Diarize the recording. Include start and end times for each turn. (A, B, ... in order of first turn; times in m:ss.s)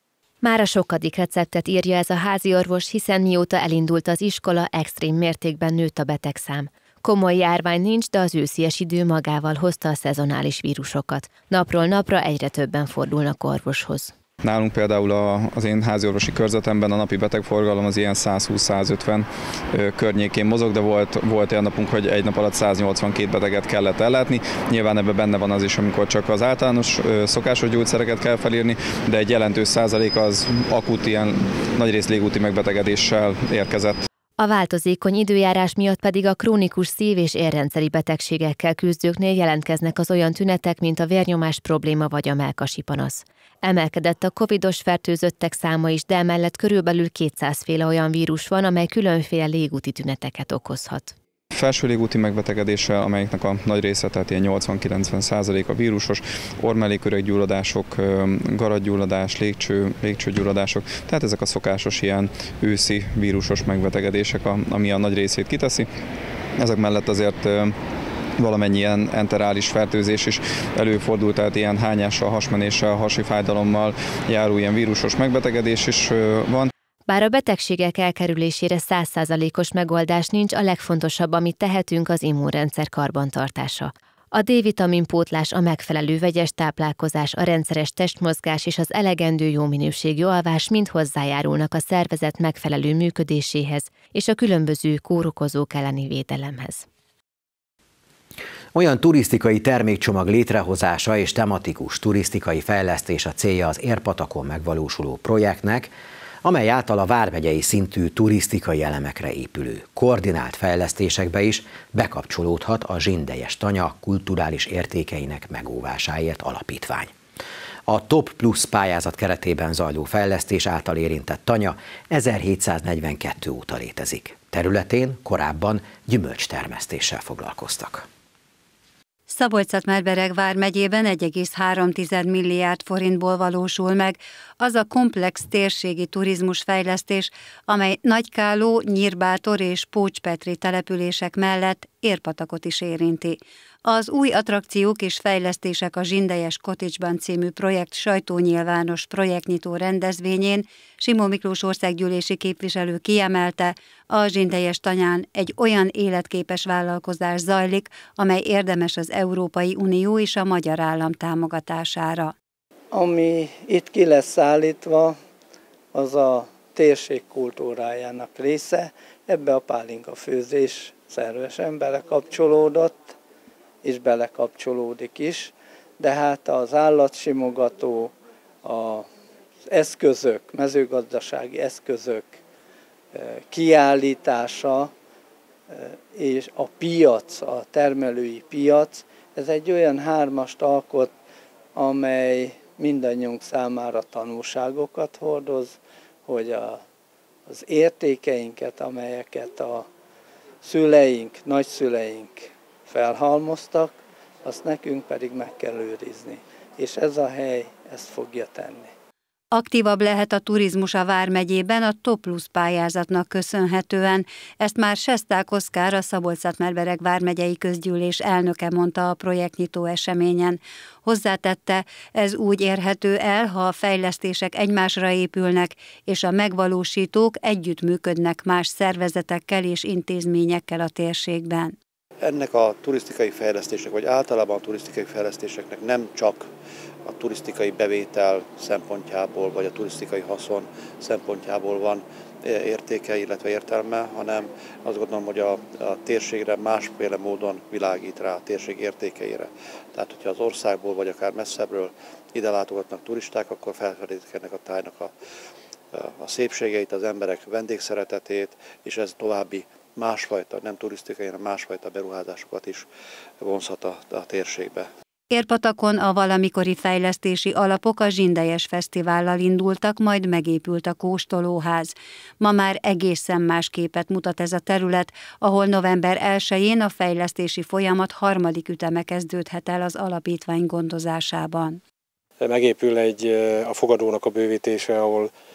0:00.4-0:14.1 A
0:14.4-0:34.0 B
0:34.4-0:51.2 A
0:51.5-1:05.9 B
1:06.6-1:07.8 B
1:08.4-1:16.7 B
1:17.1-1:36.8 A
1:38.8-1:45.9 C
1:46.4-1:57.1 C
1:57.9-2:08.1 C
2:09.3-2:42.3 D
2:42.9-2:45.2 E
2:45.9-2:53.1 E
2:53.8-2:58.1 E
2:58.6-2:59.1 E
2:59.7-3:02.4 E
3:03.1-3:04.9 E
3:05.7-3:11.1 E
3:11.8-3:16.8 E
3:17.5-3:19.9 E
3:20.6-3:28.9 E
3:29.5-3:51.8 D
3:52.2-3:56.5 F
3:57.0-4:15.1 F
4:15.9-4:22.9 F
4:23.4-4:24.9 F
4:25.3-4:41.8 D
4:42.4-4:45.3 G